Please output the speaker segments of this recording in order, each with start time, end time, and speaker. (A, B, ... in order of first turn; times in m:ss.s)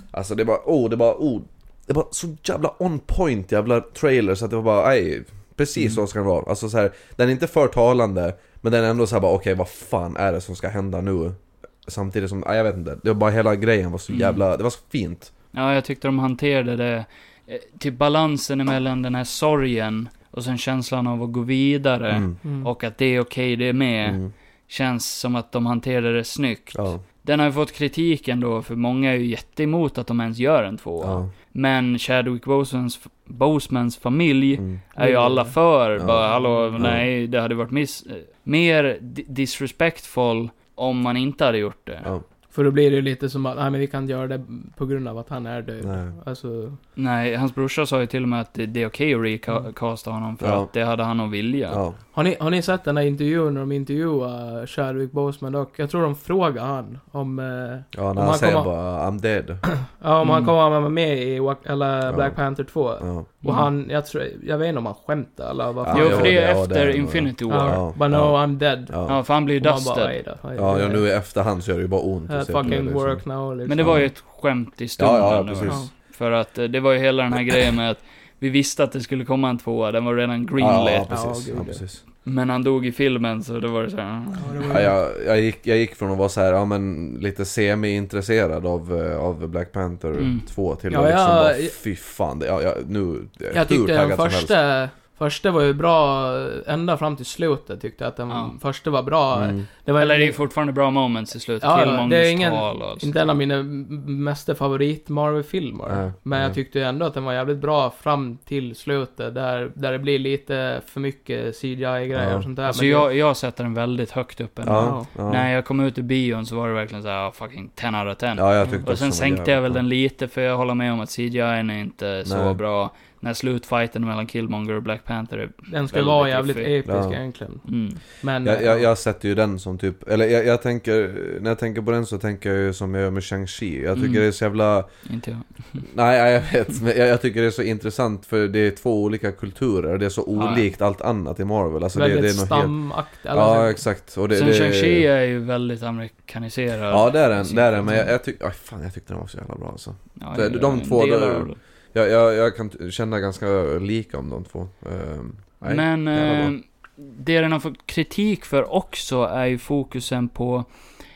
0:00.1-0:15.3 A
0:14.1-0:14.4 B
0:15.5-0:42.1 B
0:22.1-0:22.4 A
0:22.4-0:22.7 C
0:24.0-0:24.3 A
0:26.7-0:27.0 A
0:31.0-0:31.3 A
0:34.6-0:34.8 A
0:35.0-0:35.6 C
0:35.9-0:36.2 A
0:36.4-0:36.8 C
0:36.8-0:37.1 A
0:42.5-0:46.8 C
0:45.8-0:46.1 A
0:47.0-0:51.8 B
0:50.4-0:50.7 A
0:51.7-0:52.0 A
0:52.1-0:58.7 C
0:57.9-0:59.8 A
0:59.8-1:06.4 C
1:00.2-1:00.5 B
1:02.0-1:03.3 A
1:03.4-1:03.7 B
1:05.8-1:09.2 A
1:05.9-1:07.8 B
1:07.5-1:08.9 C
1:09.1-1:10.2 B
1:09.5-1:11.0 C
1:10.5-1:14.1 A
1:12.3-1:14.1 C
1:13.6-1:21.1 B
1:15.0-1:15.9 A
1:20.6-1:22.0 A
1:21.1-1:21.8 C
1:22.2-1:24.9 B
1:24.4-1:24.9 C
1:24.7-1:34.5 A
1:30.2-1:30.5 B
1:30.9-1:31.8 C
1:33.5-1:40.4 C
1:38.3-1:38.6 B
1:39.3-1:39.6 A
1:40.0-1:43.1 B
1:41.6-1:53.1 C
1:45.9-1:46.6 A
1:52.1-1:52.5 A
1:52.6-2:06.7 B
1:54.6-1:55.5 A
1:54.8-1:55.1 C
1:58.4-1:59.8 A
2:02.2-2:02.6 A
2:05.7-2:08.9 C
2:06.8-2:07.2 A
2:07.7-2:08.0 B
2:08.4-2:14.9 A
2:13.9-2:14.2 B
2:15.0-2:15.8 B
2:15.8-2:25.0 A
2:20.3-2:20.7 B
2:21.9-2:23.8 C
2:24.3-2:28.1 B
2:26.9-2:36.5 A
2:30.2-2:31.6 B
2:35.7-2:40.7 B